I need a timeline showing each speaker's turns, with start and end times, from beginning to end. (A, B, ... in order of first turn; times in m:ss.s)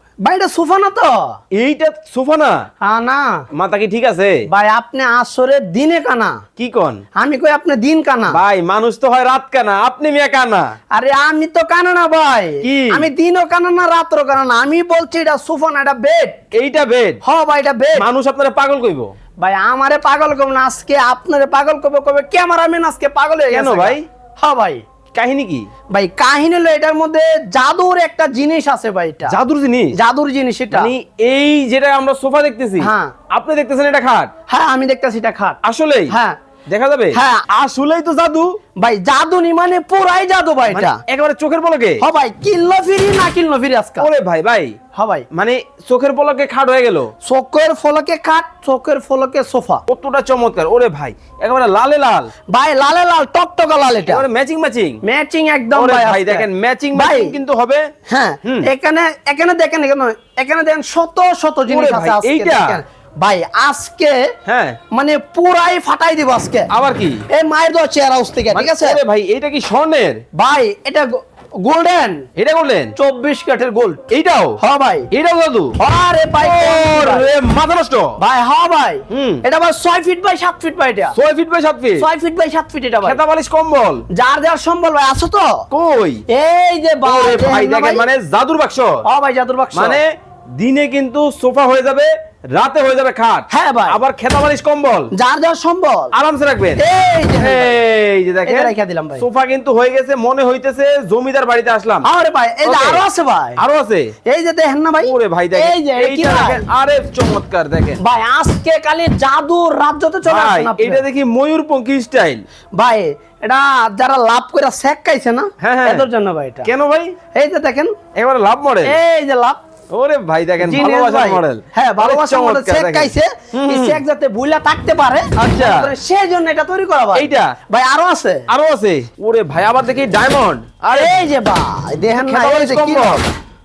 0:00.2-0:01.4 A
0:01.5-0:02.6 B
0:02.8-0:03.5 A
0:03.5-0:04.4 B
0:04.5-0:06.4 A
0:06.6-0:07.0 B
0:07.2-0:08.4 A
0:08.3-0:10.7 B
0:10.9-0:16.4 A
0:12.6-0:13.1 B
0:16.5-0:17.2 B
0:17.2-0:18.1 A
0:18.0-0:19.1 B
0:19.4-0:24.8 A
0:23.5-0:24.1 B
0:25.1-0:25.7 B
0:25.9-0:29.4 A
0:29.3-0:30.0 B
0:30.0-0:30.9 A
0:30.7-0:34.3 B
0:32.8-0:33.2 A
0:34.5-0:35.6 A
0:35.6-0:36.1 B
0:36.1-0:36.4 A
0:36.7-0:38.6 B
0:37.1-0:37.5 A
0:38.8-0:41.0 A
0:40.7-0:42.0 B
0:42.0-0:44.1 A
0:44.0-0:44.8 B
0:45.0-0:45.3 A
0:45.3-0:47.1 B
0:47.2-0:49.8 A
0:49.9-0:52.3 B
0:52.5-0:54.2 A
0:54.1-0:55.0 B
0:55.0-0:57.4 A
0:55.8-0:57.8 B
0:58.1-1:04.3 A
1:01.7-1:02.8 B
1:04.5-1:04.8 B
1:04.9-1:06.7 A
1:06.7-1:07.2 B
1:07.3-1:09.0 A
1:08.5-1:10.2 B
1:10.3-1:12.3 A
1:12.4-1:12.9 B
1:13.0-1:14.0 A
1:14.1-1:14.6 B
1:14.6-1:15.1 A
1:15.1-1:15.7 B
1:15.8-1:17.3 A
1:16.4-1:18.2 B
1:18.2-1:21.2 A
1:19.1-1:19.4 B
1:21.1-1:22.1 B
1:22.0-1:23.2 A
1:23.0-1:24.0 B
1:24.1-1:25.7 A
1:25.7-1:26.2 B
1:26.3-1:28.0 A
1:27.1-1:29.0 B
1:29.1-1:30.0 A
1:29.7-1:35.1 B
1:33.5-1:34.0 A
1:35.1-1:36.1 A
1:36.1-1:36.8 B
1:36.8-1:37.8 A
1:37.4-1:42.1 B
1:38.4-1:39.2 A
1:42.0-1:43.6 A
1:42.6-1:43.0 B
1:43.6-1:44.1 B
1:44.2-1:46.6 A
1:45.0-1:48.0 B
1:48.0-1:51.0 A
1:50.3-1:52.4 B
1:52.8-1:56.7 A
1:55.6-1:56.1 B
1:56.6-1:57.2 B
1:57.3-1:58.0 A
1:58.2-1:59.0 B
1:58.8-1:59.6 A
1:59.9-2:04.0 B
2:00.6-2:08.5 A
2:05.4-2:05.9 B
2:07.2-2:07.6 B
2:08.5-2:11.3 B
2:10.9-2:13.2 A
2:12.2-2:13.3 B